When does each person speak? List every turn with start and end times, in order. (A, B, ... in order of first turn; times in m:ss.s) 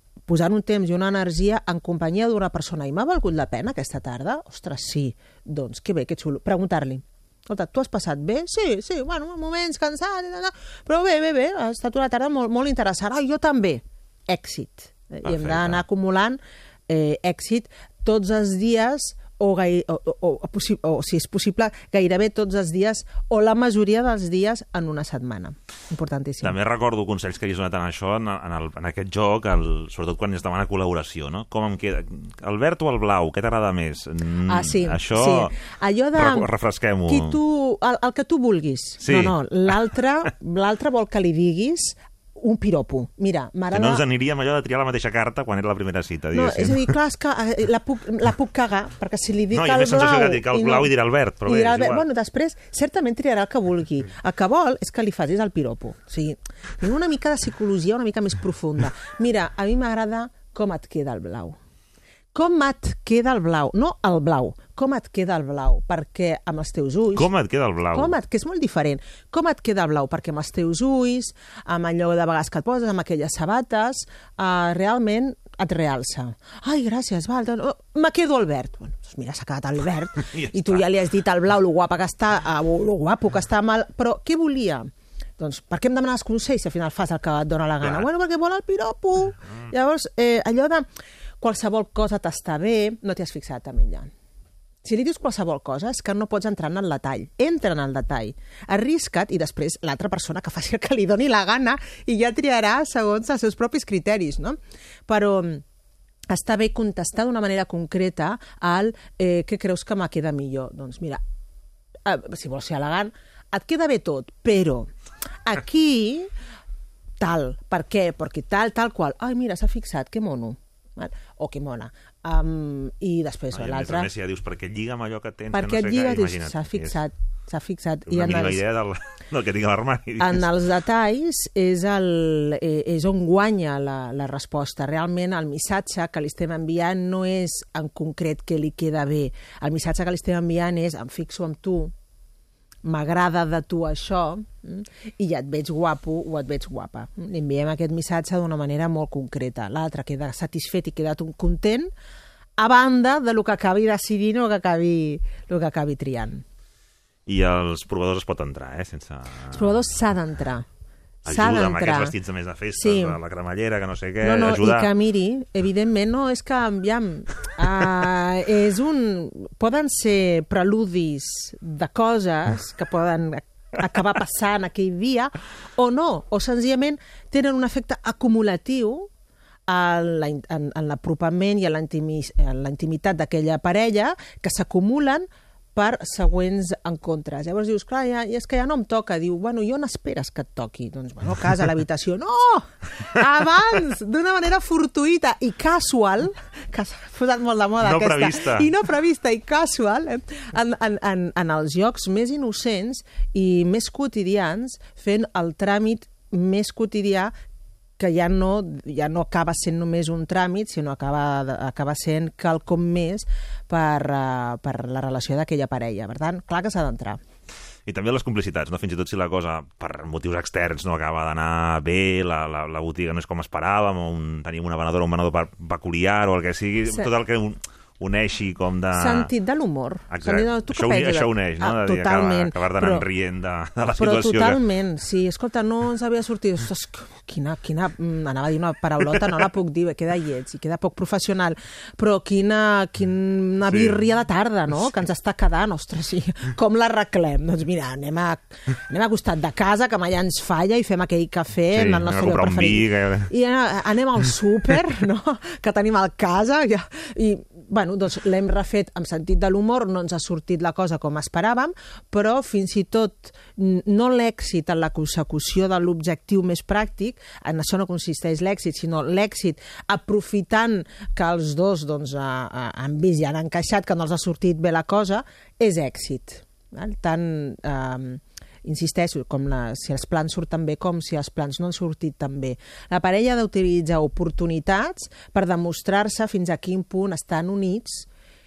0:00.3-0:26.6 A
0:15.2-0:15.8 B
0:26.4-0:35.5 B
0:34.5-0:36.5 A
0:36.2-0:37.4 B
0:37.1-0:44.0 A
0:39.0-0:39.4 B
0:43.7-0:46.9 B
0:46.3-0:50.9 A
0:49.5-0:52.0 B
0:51.4-1:01.6 A
1:02.3-1:07.3 A
1:07.2-1:08.1 B
1:07.9-1:30.9 A
1:20.3-1:20.8 B
1:31.4-1:34.1 A
1:34.8-1:45.6 A
1:46.3-1:51.2 A
1:52.0-1:54.9 A
1:55.5-1:56.3 A
1:57.2-2:04.1 A
2:03.5-2:07.0 B
2:05.5-2:08.6 A
2:08.1-2:10.5 B
2:10.2-2:21.9 A
2:22.8-2:31.9 A
2:32.6-2:36.4 A
2:37.3-2:39.8 B
2:39.5-2:40.6 A
2:41.3-2:44.9 B
2:41.3-2:42.1 A
2:42.7-2:43.2 A
2:44.2-2:59.1 A
2:59.7-3:27.3 A
3:17.8-3:18.7 B
3:28.0-3:37.2 A
3:37.9-3:49.3 B
3:48.9-3:53.0 A
3:50.1-3:54.6 B
3:53.9-4:48.1 A
4:03.7-4:04.0 B
4:11.7-4:13.3 B